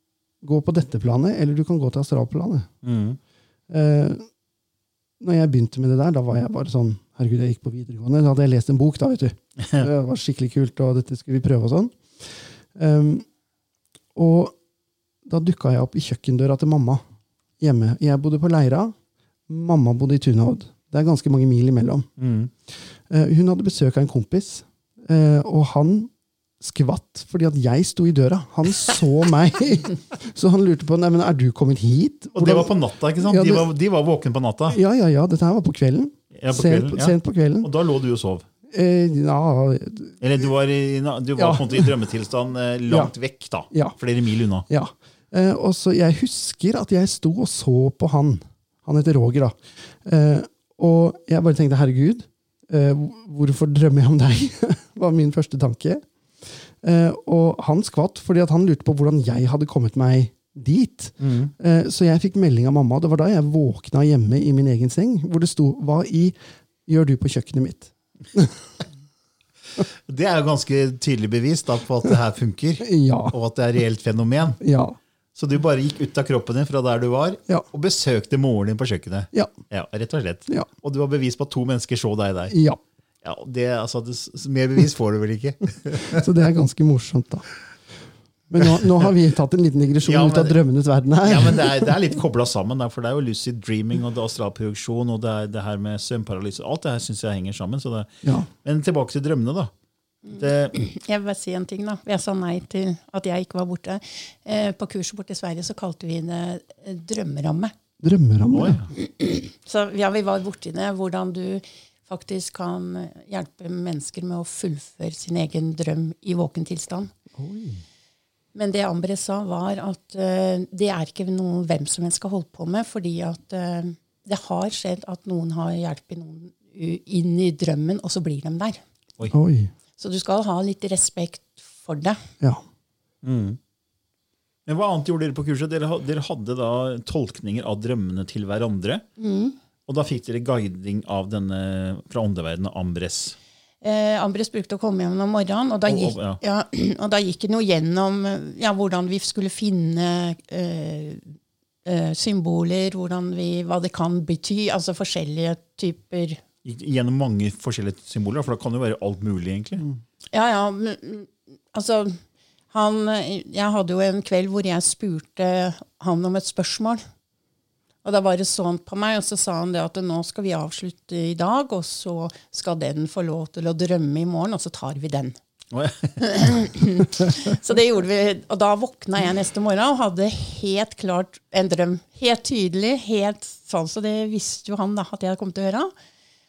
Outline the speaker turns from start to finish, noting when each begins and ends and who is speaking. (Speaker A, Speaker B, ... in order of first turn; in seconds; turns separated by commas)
Speaker A: 0.4-2.7, Speaker B: 2.8-3.2, Speaker A: 3.7-4.2, Speaker A: 5.2-13.2, Speaker B: 9.6-9.9, Speaker A: 14.2-14.6, Speaker A: 15.2-17.0, Speaker A: 17.6-18.9, Speaker A: 19.5-22.1, Speaker B: 22.2-22.5, Speaker A: 23.1-33.7, Speaker B: 32.4-34.8, Speaker A: 34.7-37.7, Speaker B: 36.3-38.5, Speaker A: 38.7-40.2, Speaker B: 40.2-44.7, Speaker A: 41.4-41.9, Speaker A: 43.7-44.0, Speaker A: 44.7-66.3, Speaker B: 61.2-61.5, Speaker A: 66.9-68.6, Speaker B: 69.8-74.6, Speaker A: 72.8-73.3, Speaker A: 74.6-75.0, Speaker B: 75.3-82.6, Speaker A: 82.5-82.8, Speaker B: 83.2-86.2, Speaker A: 86.1-87.5, Speaker A: 88.5-91.9, Speaker B: 88.7-89.1, Speaker B: 90.0-90.6, Speaker B: 91.2-98.1, Speaker A: 98.2-98.5, Speaker B: 98.6-99.7, Speaker C: 100.3-107.7, Speaker B: 100.3-100.8, Speaker A: 108.0-108.8, Speaker B: 108.5-108.9, Speaker C: 109.0-117.2, Speaker A: 117.4-117.8, Speaker C: 118.5-128.8, Speaker A: 129.3-129.7, Speaker C: 130.0-132.2, Speaker B: 133.2-133.6, Speaker B: 134.7-139.0, Speaker C: 139.2-139.6, Speaker B: 139.9-143.4, Speaker C: 143.8-151.3, Speaker B: 145.9-146.4, Speaker C: 151.8-156.4, Speaker B: 156.7-159.9, Speaker C: 160.3-162.2, Speaker C: 162.7-167.0, Speaker C: 168.0-175.4, Speaker B: 175.7-176.2, Speaker C: 176.2-185.9